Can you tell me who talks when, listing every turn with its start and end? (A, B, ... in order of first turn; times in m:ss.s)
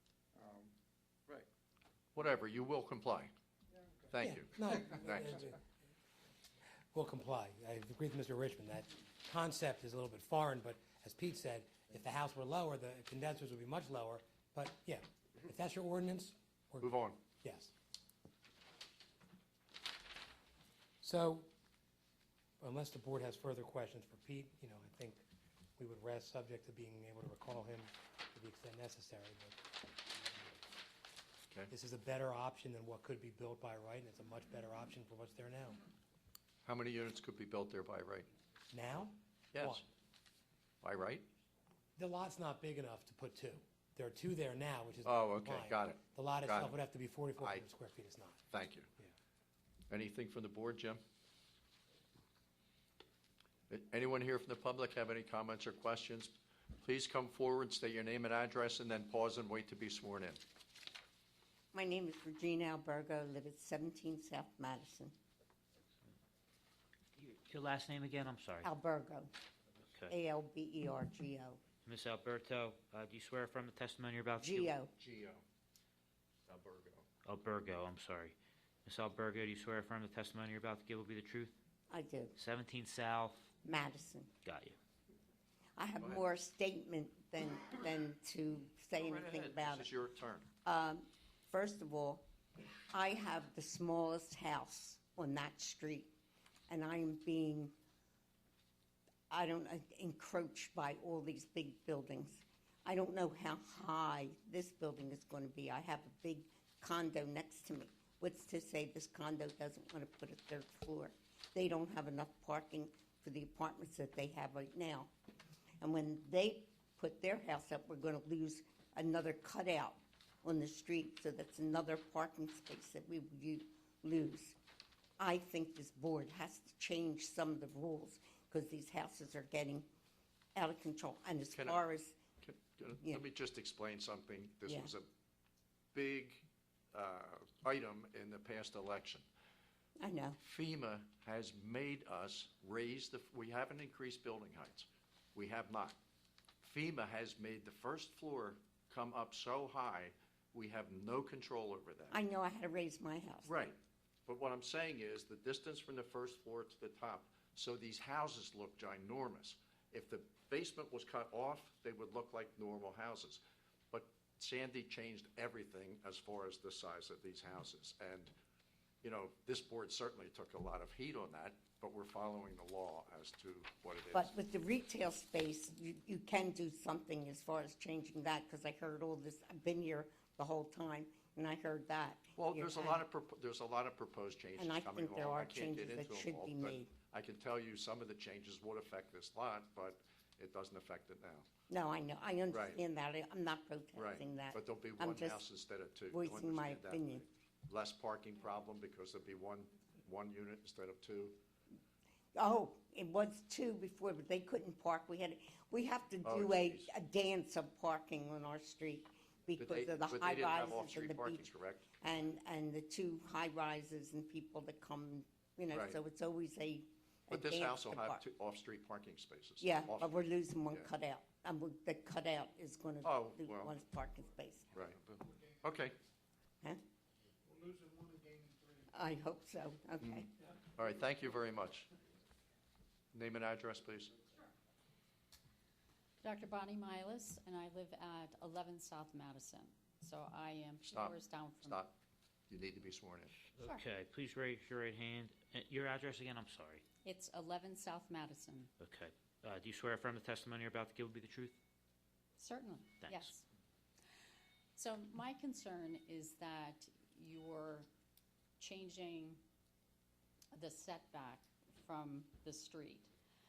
0:00.3-0:00.7 A
0:02.2-0:03.3 B
0:03.8-0:04.1 A
0:04.1-0:05.4 B
0:04.2-0:05.6 C
0:06.9-0:16.9 C
0:16.8-0:17.2 B
0:17.4-0:17.7 C
0:21.0-0:21.5 C
0:22.6-0:25.2 C
0:25.8-0:29.6 C
0:31.7-0:35.8 C
0:36.6-0:38.3 B
0:38.7-0:39.8 C
0:39.5-0:39.8 B
0:40.8-0:41.3 B
0:42.0-0:48.4 C
0:45.0-0:46.8 B
0:47.4-0:47.7 B
0:48.5-0:48.9 B
0:49.9-0:51.0 B
0:53.7-1:00.4 B
1:01.7-1:05.1 D
1:07.2-1:08.7 E
1:08.6-1:09.3 D
1:09.9-1:10.2 E
1:10.1-1:11.6 D
1:11.8-1:14.7 E
1:14.4-1:14.9 D
1:15.0-1:15.4 B
1:16.5-1:17.1 B
1:17.2-1:21.6 E
1:21.9-1:22.3 D
1:22.4-1:23.5 E
1:23.6-1:24.3 D
1:24.4-1:24.8 E
1:25.8-1:29.9 D
1:29.0-1:30.5 B
1:30.6-1:32.2 D
1:32.9-1:36.1 D
1:36.7-1:37.7 D
1:39.3-1:55.1 D
1:55.8-2:04.6 D
2:05.2-2:09.9 D
2:10.6-2:12.2 D
2:11.5-2:11.8 B
2:12.4-2:15.1 B
2:14.7-2:14.9 D
2:15.9-2:19.3 B
2:20.0-2:20.4 D
2:20.4-2:26.0 B
2:26.6-2:32.2 B
2:32.1-2:33.6 D
2:33.4-2:48.3 B
2:49.0-2:54.3 B
2:54.1-3:03.0 D
3:02.4-3:11.5 B
3:04.6-3:07.0 D
3:11.7-3:15.4 D
3:12.5-3:12.8 B
3:14.0-3:21.4 B
3:16.1-3:17.2 D
3:22.4-3:38.2 D
3:26.2-3:26.9 B
3:29.6-3:32.0 B
3:35.7-3:36.0 B
3:37.3-3:40.9 B
3:39.6-3:44.7 D
3:43.0-3:43.7 B
3:44.7-3:45.1 B
3:45.1-3:45.7 A
3:45.6-3:46.0 B
3:47.5-3:48.8 A
3:48.9-3:50.3 D
3:50.8-3:51.9 B
3:53.1-3:54.2 B
3:56.2-4:01.8 F
4:00.9-4:01.9 B
4:02.5-4:03.4 B
4:03.5-4:06.8 E
4:07.0-4:08.7 F
4:08.8-4:11.6 E
4:12.4-4:13.4 F
4:13.0-4:13.3 E
4:14.8-4:17.9 F
4:18.6-4:19.4 F
4:20.5-4:23.1 F